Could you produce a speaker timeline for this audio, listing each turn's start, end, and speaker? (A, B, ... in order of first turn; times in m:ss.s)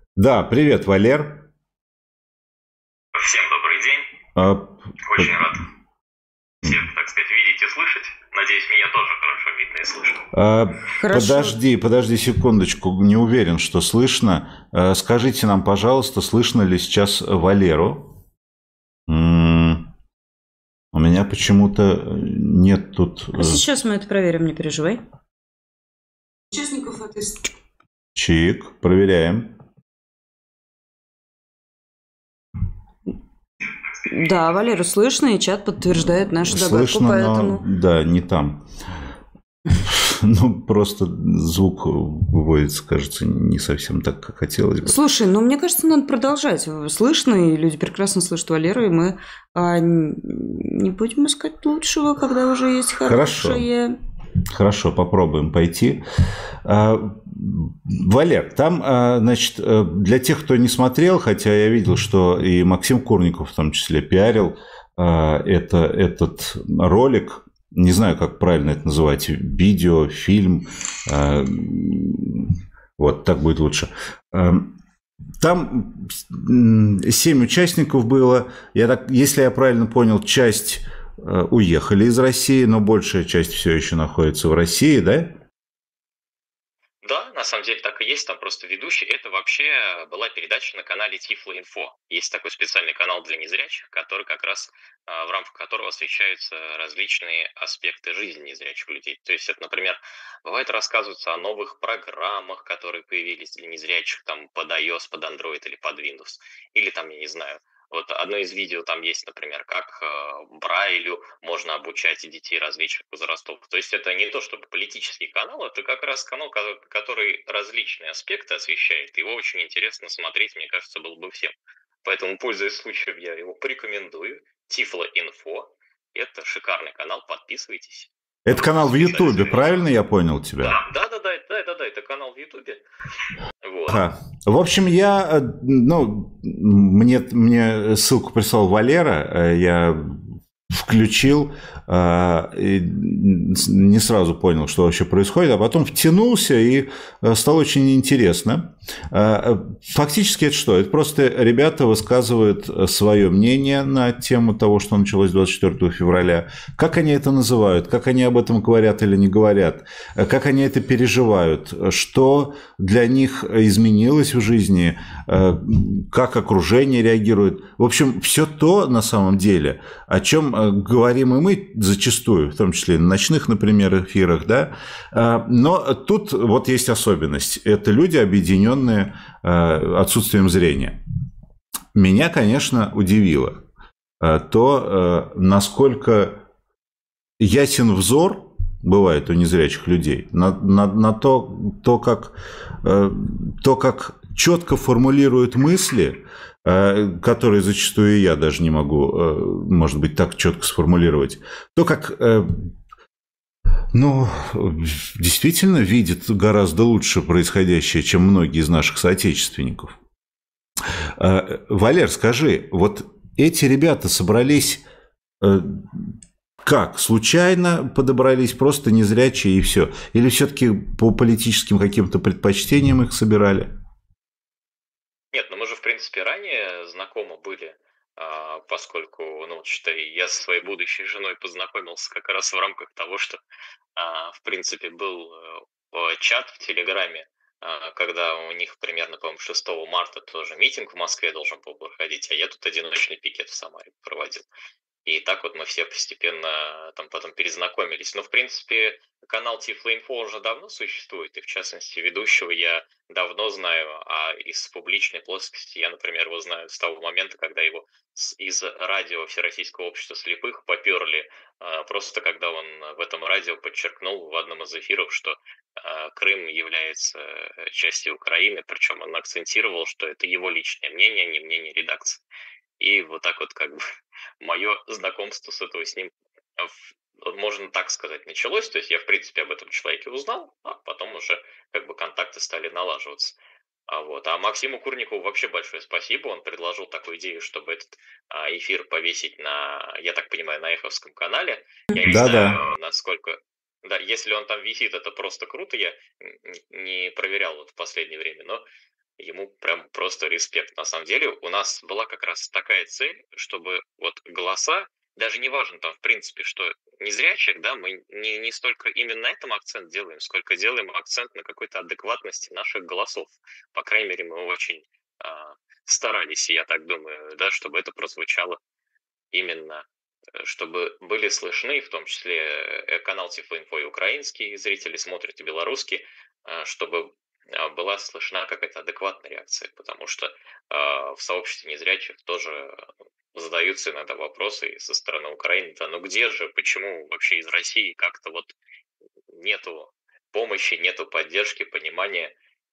0:00.2-0:01.4 A
0:03.1-0:04.1 B
0:04.4-0:05.4 A
0:05.0-0:05.6 B
0:06.6-0:10.2 B
0:10.3-0:18.1 A
0:11.0-0:11.6 C
0:19.1-0:19.8 A
0:20.9-0:23.6 A
0:23.3-0:25.0 C
0:26.5-0:27.5 C
0:28.2-0:29.5 A
0:34.0-0:37.6 C
0:36.4-0:38.6 A
0:39.8-0:45.0 A
0:44.8-0:54.0 C
0:53.0-0:53.7 A
0:54.5-0:56.0 A
0:56.6-1:14.7 A
1:15.4-1:25.3 A
1:27.0-2:09.8 B
2:08.4-2:10.8 A
2:10.6-2:12.8 B
2:13.6-2:14.0 B
2:13.9-2:20.2 A
2:20.7-3:01.0 A
3:01.9-3:03.6 A
3:04.2-3:06.4 A
3:07.4-3:22.5 A
3:23.9-3:29.9 A
3:31.2-3:34.8 A
3:35.4-3:36.0 A
3:36.6-3:43.7 A
3:45.3-3:53.4 B
3:54.0-4:04.5 B
4:05.0-4:32.2 B
4:32.8-4:33.8 B
4:34.4-4:43.4 B
4:43.9-4:58.6 B
4:52.0-4:52.6 A
4:59.2-5:18.6 B
5:19.3-5:38.6 B
5:39.3-5:42.3 B